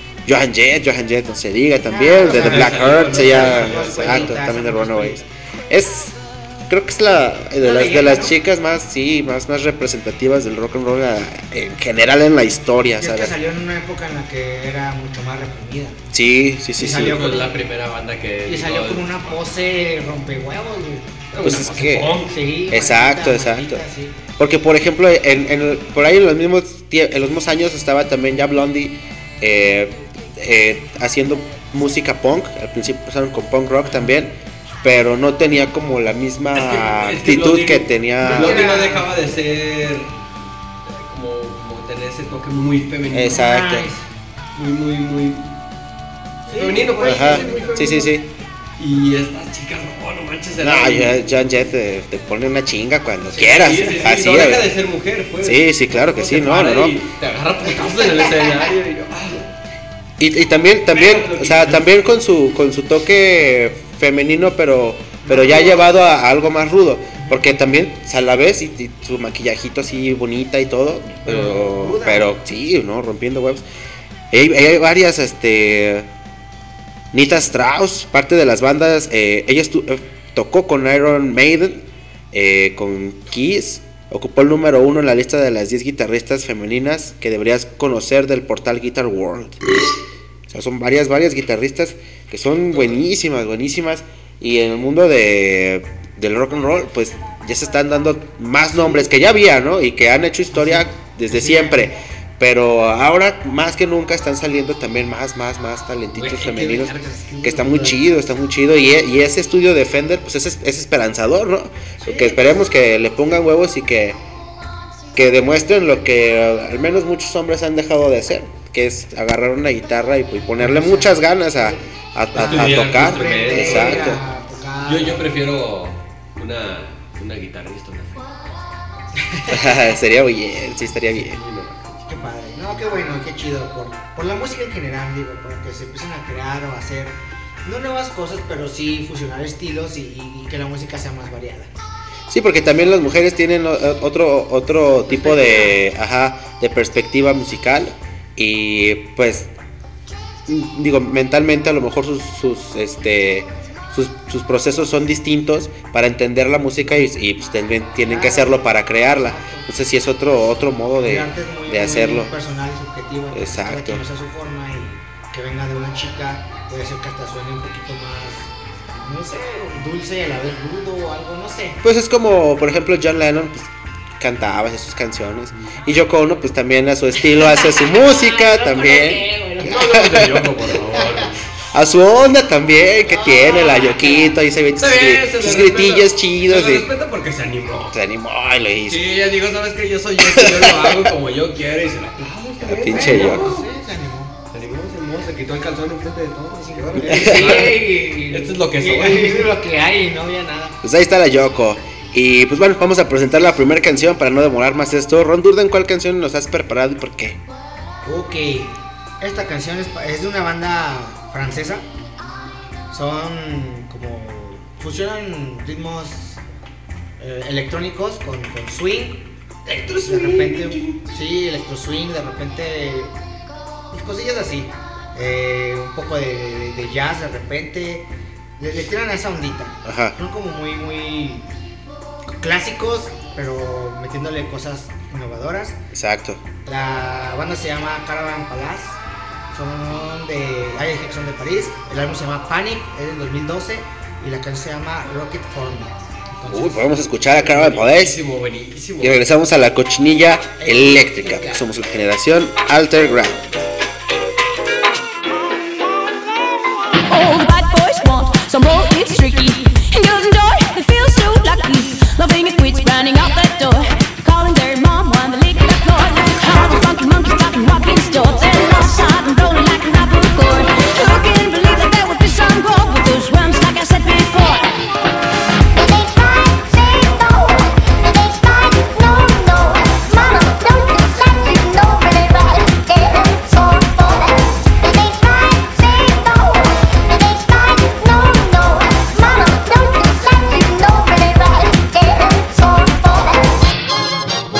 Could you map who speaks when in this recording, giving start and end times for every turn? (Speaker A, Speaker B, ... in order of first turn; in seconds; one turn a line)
Speaker A: 0.2-13.3
Speaker B: 1.9-5.2
Speaker C: 2.2-4.3
Speaker B: 7.6-8.3
Speaker B: 13.0-16.0
Speaker A: 16.1-17.2
Speaker B: 16.8-17.6
Speaker C: 16.8-19.4
Speaker B: 18.4-21.2
Speaker C: 21.3-22.3
Speaker A: 21.4-22.1
Speaker B: 22.3-24.1
Speaker A: 22.7-23.8
Speaker A: 24.4-38.7
Speaker C: 36.5-40.1
Speaker B: 38.2-39.1
Speaker C: 40.9-43.5
Speaker A: 43.1-43.9
Speaker B: 43.3-44.0
Speaker C: 44.5-45.5
Speaker B: 46.5-48.1
Speaker C: 46.5-48.0
Speaker A: 47.0-48.2
Speaker C: 48.8-51.6
Speaker A: 50.6-54.7
Speaker C: 53.3-59.5
Speaker A: 55.4-57.0
Speaker B: 57.7-58.6
Speaker A: 60.2-73.6
Speaker C: 60.9-61.9
Speaker B: 65.2-65.8
Speaker B: 67.2-67.4
Speaker B: 71.2-72.3
Speaker A: 74.3-76.1
Speaker A: 77.1-89.8
Speaker A: 90.5-114.2
Speaker B: 100.5-101.9
Speaker C: 106.1-107.5
Speaker B: 106.8-108.0
Speaker B: 112.0-112.4
Speaker A: 115.1-124.2
Speaker B: 120.6-121.2
Speaker B: 122.3-125.2
Speaker C: 122.3-124.2
Speaker C: 124.8-128.3
Speaker B: 129.2-129.9
Speaker A: 129.5-131.4
Speaker C: 131.1-132.1
Speaker B: 132.1-141.7
Speaker A: 142.3-149.5
Speaker B: 145.1-145.8
Speaker A: 150.5-162.3
Speaker B: 158.0-159.7
Speaker B: 161.0-171.8
Speaker A: 163.3-164.0
Speaker A: 171.8-180.6
Speaker B: 177.3-179.8
Speaker C: 179.6-181.4
Speaker B: 181.0-181.2
Speaker A: 181.7-186.9
Speaker B: 183.0-184.3
Speaker C: 184.8-188.0
Speaker A: 187.9-189.0
Speaker C: 188.9-193.6
Speaker A: 190.2-191.1
Speaker A: 192.7-193.5
Speaker B: 192.8-194.3
Speaker C: 194.5-199.5
Speaker B: 196.6-200.8
Speaker A: 197.0-197.7
Speaker A: 200.8-207.4
Speaker B: 208.0-211.8
Speaker B: 212.9-216.4
Speaker B: 217.2-219.3
Speaker C: 219.7-221.0
Speaker B: 220.0-223.1
Speaker B: 223.9-231.4
Speaker A: 229.8-230.2
Speaker B: 232.4-235.8
Speaker A: 235.9-236.4
Speaker B: 236.6-239.0
Speaker B: 239.5-246.8
Speaker A: 246.5-248.2
Speaker C: 247.3-249.2
Speaker A: 249.0-253.4
Speaker B: 250.6-251.7
Speaker D: 257.1-274.8